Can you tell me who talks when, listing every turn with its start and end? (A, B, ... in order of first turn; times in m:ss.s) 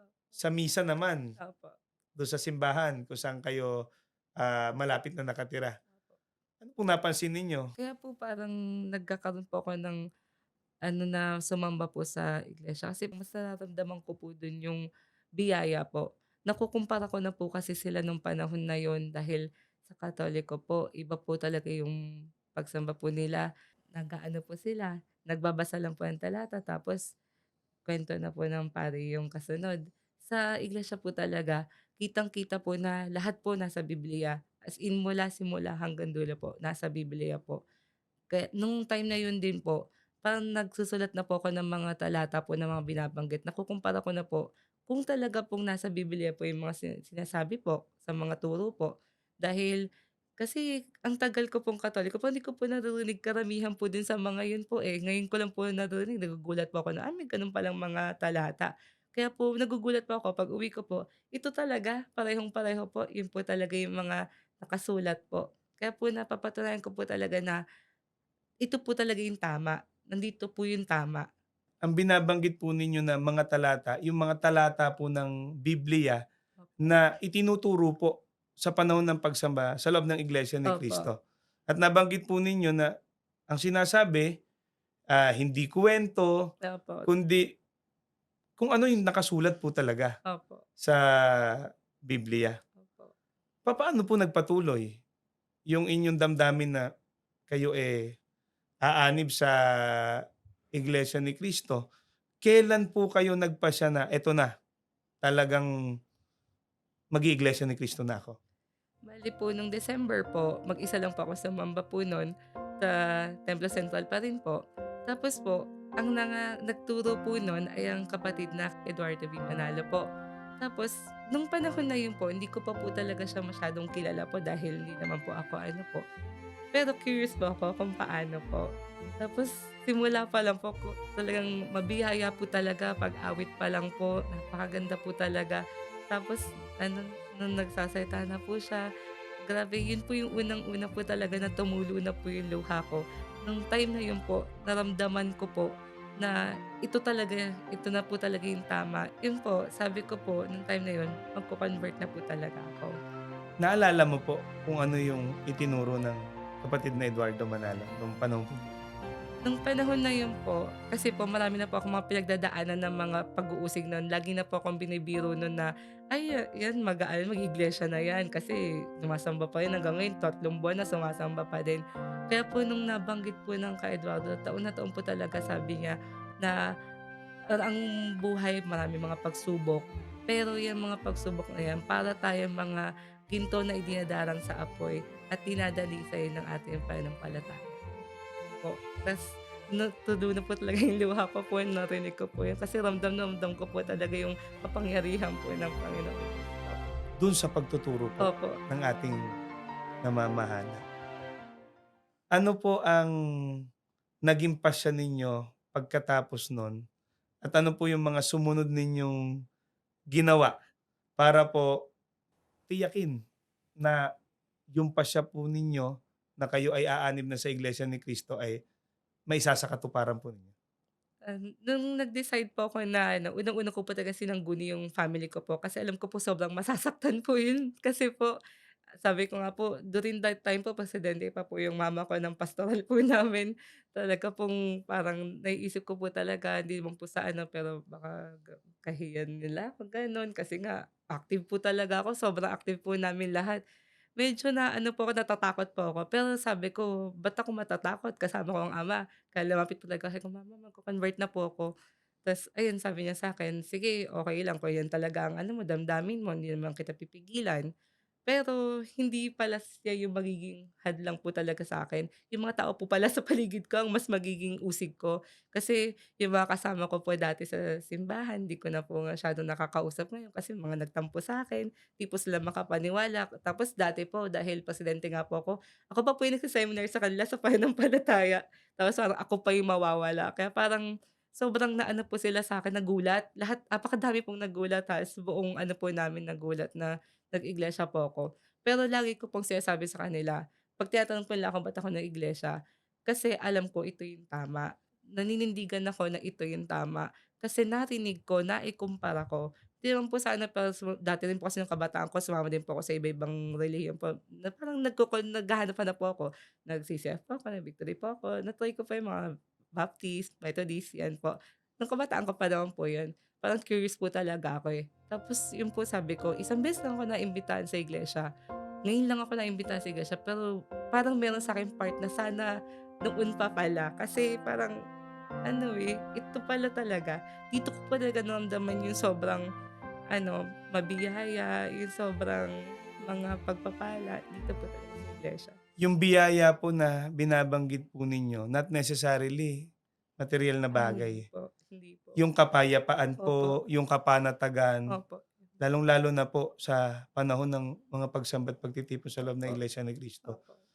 0:00.4-0:01.3 A
0:01.4-0:01.8 B
0:02.2-0:03.9 A
0:04.4-0:05.8 A
0:06.6-0:07.7 A
0:07.8-0:10.0 B
0:10.9-0:14.8 B
0:15.4-0:22.0 B
0:22.5-0:27.1 B
0:27.9-0:37.6 B
0:38.3-0:49.8 B
0:50.4-1:07.6 B
1:08.6-1:11.3 B
1:11.8-1:16.2 A
1:16.8-1:21.2 A
1:20.7-1:21.1 B
1:21.7-1:22.9 A
1:23.5-1:24.4 A
1:25.1-1:26.5 A
1:26.6-1:27.1 B
1:27.1-1:27.5 A
1:28.6-1:30.2 A
1:30.3-1:30.6 B
1:30.8-1:32.6 A
1:32.8-1:33.1 B
1:33.7-1:35.0 A
1:35.7-1:36.9 A
1:37.5-1:38.2 A
1:38.8-1:40.2 A
1:40.7-1:41.8 A
1:42.4-1:44.5 A
1:45.2-1:45.7 A
1:47.1-1:48.4 A
1:49.1-2:00.1 B
2:00.6-2:06.0 B
2:06.7-2:08.7 B
2:09.2-2:18.8 B
2:19.5-2:33.0 B
2:33.6-2:38.8 A
2:39.4-2:56.6 B
2:57.5-3:07.8 B
3:08.4-3:16.8 B
3:17.2-3:19.3 A
3:18.2-3:18.6 B
3:20.0-3:20.8 A
3:22.3-3:23.1 A
3:24.3-3:26.8 A
3:27.4-3:29.3 A
3:30.1-3:30.6 A
3:31.2-3:31.9 A
3:32.7-3:33.2 A
3:34.7-3:38.6 A
3:39.3-3:40.5 A
3:41.3-3:48.4 B
3:49.0-4:03.6 B
4:04.2-4:11.7 B
4:12.3-4:17.7 B
4:18.3-4:40.9 B
4:41.4-4:52.6 B
4:53.1-5:09.2 B
5:09.8-5:18.3 B
5:18.9-5:22.5 B
5:23.0-5:24.8 B
5:25.5-5:29.4 B
5:30.1-5:32.5 B
5:33.0-5:35.6 B
5:35.8-5:39.7 A
5:40.2-5:41.3 A
5:40.8-5:42.2 B
5:42.2-5:44.9 A
5:43.2-5:43.6 B
5:44.9-5:45.3 B
5:45.6-5:50.4 A
5:50.3-5:50.6 B